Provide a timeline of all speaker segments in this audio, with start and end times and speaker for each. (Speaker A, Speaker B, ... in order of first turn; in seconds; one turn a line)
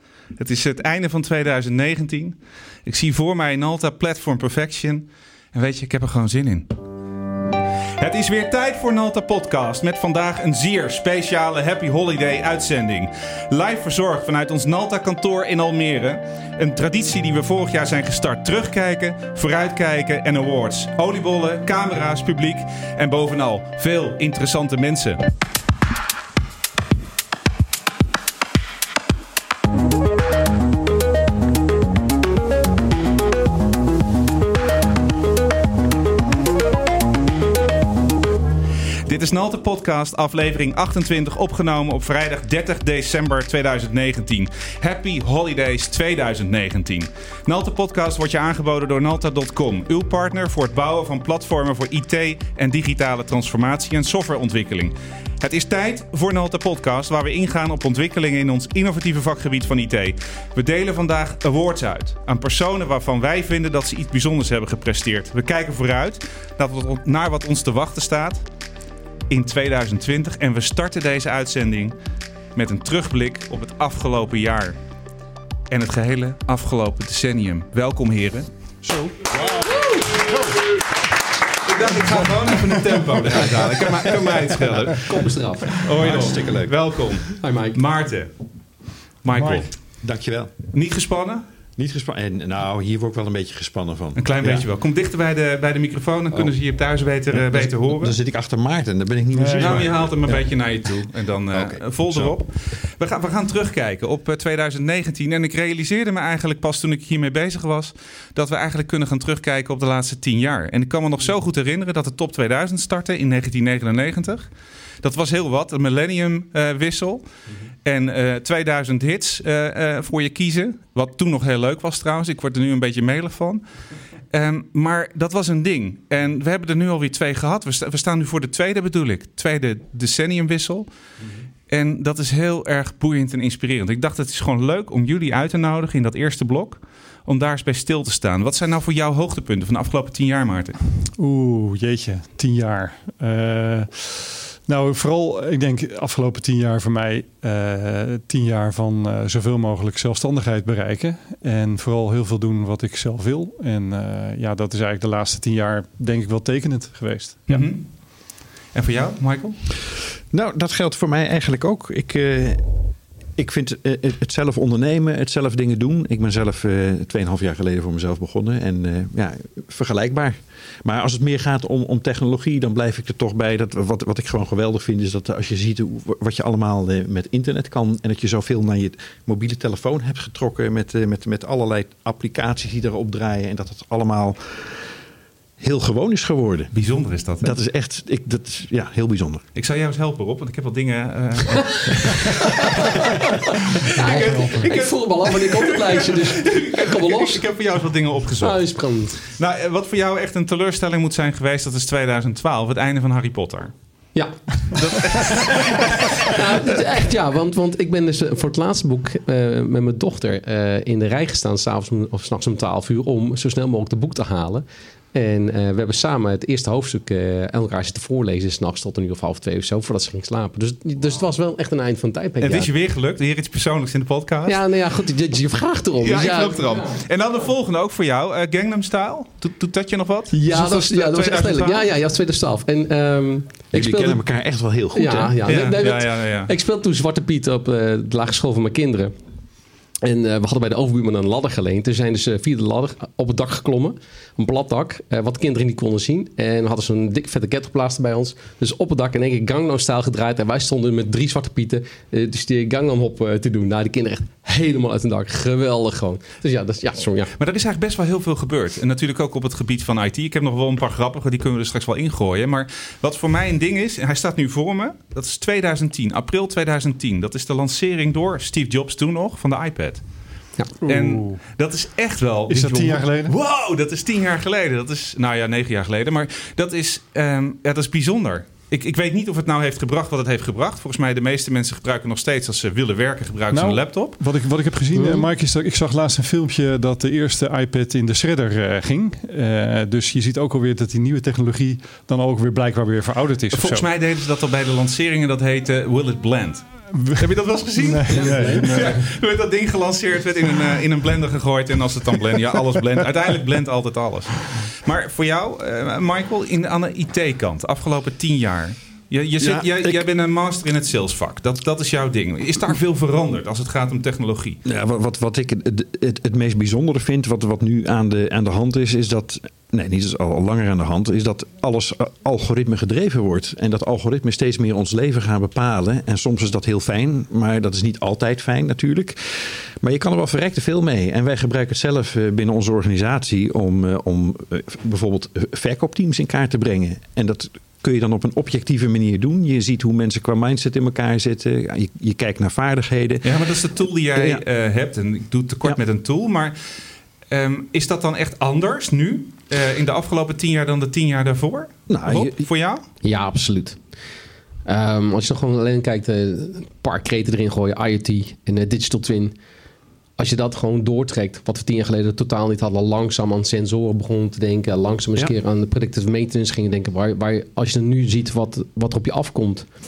Speaker A: 0.3-6.7
Speaker A: 8.0-25.2
Speaker A: 39.1-68.5
Speaker A: 69.3-72.0
Speaker A: 72.5-74.8
Speaker A: 75.7-78.5
Speaker B: 79.8-80.2
Speaker A: 81.7-88.4
Speaker B: 85.0-85.9
Speaker C: 85.8-87.2
Speaker B: 87.4-87.8
Speaker A: 89.2-91.5
Speaker C: 89.3-90.6
Speaker C: 91.8-94.7
Speaker A: 94.2-98.2
Speaker C: 96.3-101.0
Speaker D: 99.4-99.9
Speaker A: 99.6-114.5
Speaker C: 101.5-102.4
Speaker A: 115.0-117.3
Speaker A: 117.8-123.6
Speaker A: 124.3-130.9
Speaker A: 131.7-140.8
Speaker D: 141.2-157.8
Speaker A: 157.5-159.6
Speaker C: 160.3-184.9
Speaker C: 185.6-186.8
Speaker A: 186.7-187.5
Speaker C: 187.4-189.5
Speaker A: 189.6-192.1
Speaker A: 193.9-203.8
Speaker B: 194.0-197.5
Speaker B: 198.4-199.2
Speaker B: 204.1-222.7
Speaker A: 204.7-206.3
Speaker A: 222.4-224.6
Speaker B: 224.5-227.0
Speaker A: 226.0-231.9
Speaker B: 230.3-239.1
Speaker C: 233.7-235.4
Speaker A: 235.5-236.5
Speaker B: 240.0-257.3
Speaker A: 257.4-284.2
Speaker D: 270.8-271.4
Speaker D: 272.5-273.3
Speaker D: 283.5-293.9
Speaker B: 284.9-285.3
Speaker A: 293.5-314.6
Speaker D: 296.9-299.0
Speaker B: 298.1-298.7
Speaker C: 309.4-310.1
Speaker C: 314.6-344.4
Speaker A: 343.2-352.8
Speaker C: 351.9-352.5
Speaker B: 353.0-353.9
Speaker B: 354.6-359.4
Speaker B: 360.2-369.7